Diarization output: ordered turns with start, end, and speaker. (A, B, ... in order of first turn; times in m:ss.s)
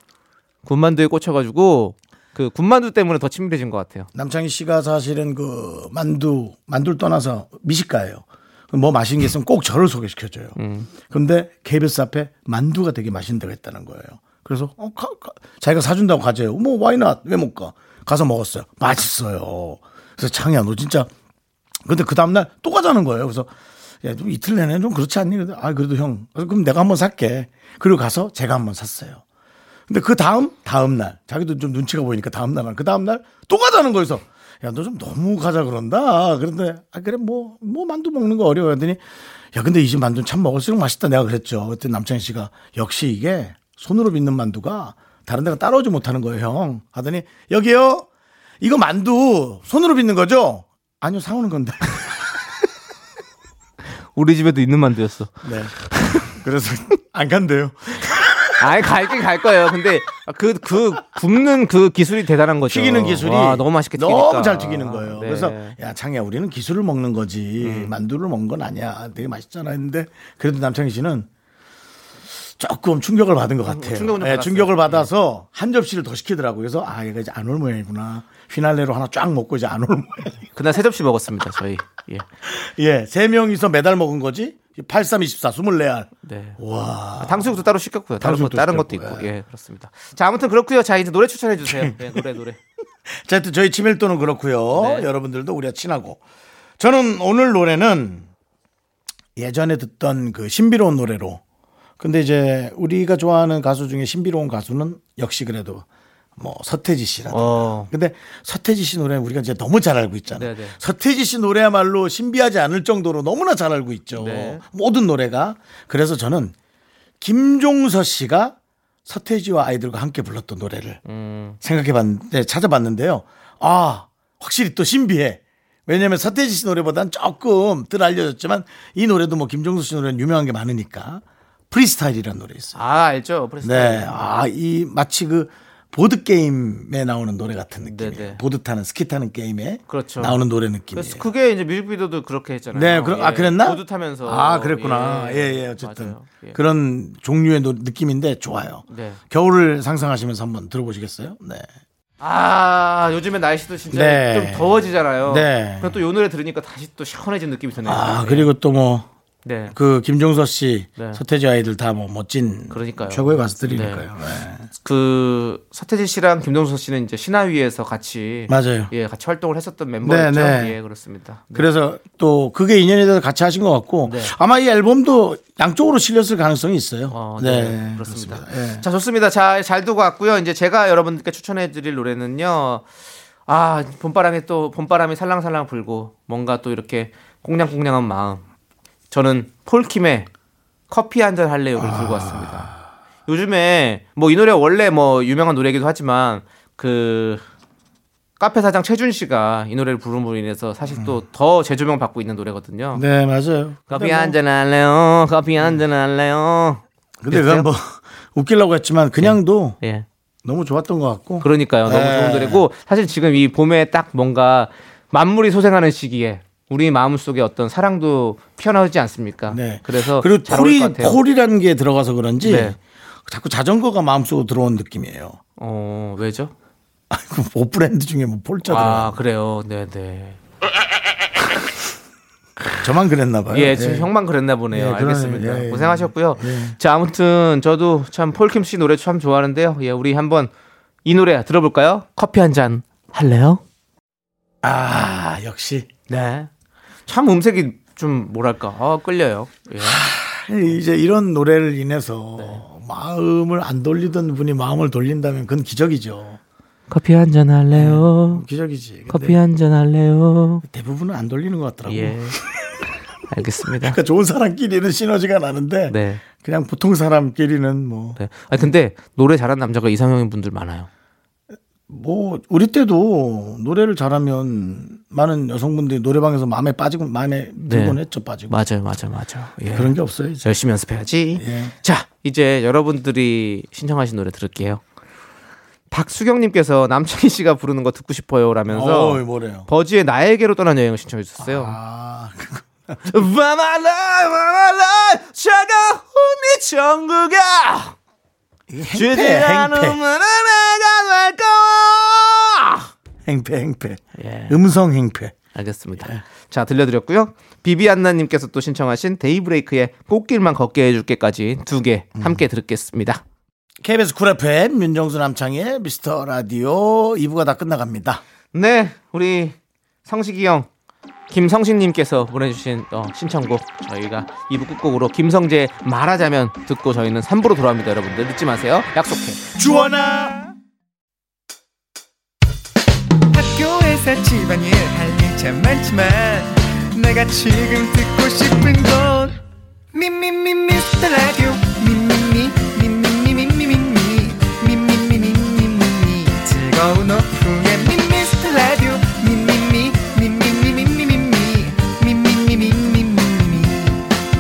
0:00.6-0:04.1 A
0:04.1-0:21.1 B
0:10.6-0:10.9 A
0:21.8-0:23.5 B
0:24.0-0:29.2 B
0:29.9-0:48.1 B
0:48.6-0:52.1 B
0:54.1-0:56.3 A
0:55.4-0:55.7 B
0:56.2-0:58.7 B
0:58.6-1:05.8 A
1:02.7-1:11.3 B
1:07.6-1:07.9 A
1:12.6-1:20.4 B
1:13.7-1:15.1 A
1:20.5-1:22.2 A
1:22.4-1:27.6 B
1:26.2-1:26.6 A
1:27.2-1:32.6 A
1:28.2-1:29.3 B
1:31.6-1:32.2 B
1:33.1-1:36.2 B
1:34.7-1:35.1 A
1:36.8-1:38.3 B
1:39.4-1:41.4 B
1:42.0-1:45.8 B
1:46.4-1:56.5 B
1:47.3-1:47.9 A
1:50.3-1:50.8 A
1:54.1-1:54.6 A
1:57.2-2:01.0 B
2:01.0-2:01.6 A
2:01.6-2:12.8 B
2:12.7-2:14.4 A
2:13.6-2:21.2 B
2:17.8-2:18.4 A
2:19.9-2:20.4 A
2:20.9-2:26.6 A
2:22.7-2:31.7 B
2:28.9-2:29.2 A
2:32.2-2:38.5 A
2:33.9-2:34.7 B
2:35.2-2:36.0 B
2:37.8-2:39.1 B
2:39.4-2:39.7 A
2:39.7-2:44.7 B
2:42.7-2:44.1 A
2:44.8-2:51.7 A
2:48.5-2:48.9 B
2:50.0-2:50.7 B
2:51.5-2:58.8 B
2:54.0-2:54.3 A
2:57.1-3:02.8 A
3:03.4-3:08.4 A
3:09.1-3:10.3 A
3:10.9-3:12.7 A
3:11.8-3:12.8 B
3:13.3-3:17.4 A
3:18.4-3:23.0 A
3:22.9-3:24.4 B
3:23.9-3:27.7 A
3:27.2-3:29.8 B
3:29.2-3:30.0 A
3:30.4-3:32.6 B
3:31.4-3:41.2 A
3:39.5-3:45.4 B
3:42.4-3:42.8 A
3:45.6-3:46.5 A
3:47.1-3:49.2 B
3:48.6-3:50.4 A
3:52.8-3:54.1 B
3:53.5-4:00.5 A
3:54.7-3:56.8 B
4:01.0-4:03.6 A
4:04.6-4:05.9 B
4:06.1-4:06.5 A
4:07.1-4:10.0 A
4:09.8-4:16.4 B
4:12.4-4:12.6 A
4:16.9-4:18.4 A
4:17.7-4:19.4 B
4:19.1-4:20.6 A
4:20.6-4:22.7 B
4:21.9-4:22.4 A
4:23.3-4:24.0 A
4:23.8-4:28.6 B
4:25.9-4:26.2 A
4:28.2-4:30.9 A
4:31.9-4:38.5 B
4:37.6-4:44.8 A
4:39.7-4:40.5 B
4:41.4-4:41.7 B
4:45.9-4:51.8 A
4:48.7-4:49.7 B
4:51.4-4:53.0 B
4:53.0-4:58.0 A
4:58.7-5:00.0 B
4:58.9-5:02.9 A
5:03.2-5:05.3 B
5:04.2-5:04.6 A
5:05.5-5:13.2 A
5:13.8-5:18.2 B
5:18.5-5:20.7 A
5:21.3-5:29.5 A
5:29.5-5:30.4 B
5:33.3-5:39.4 C
5:39.9-5:54.1 C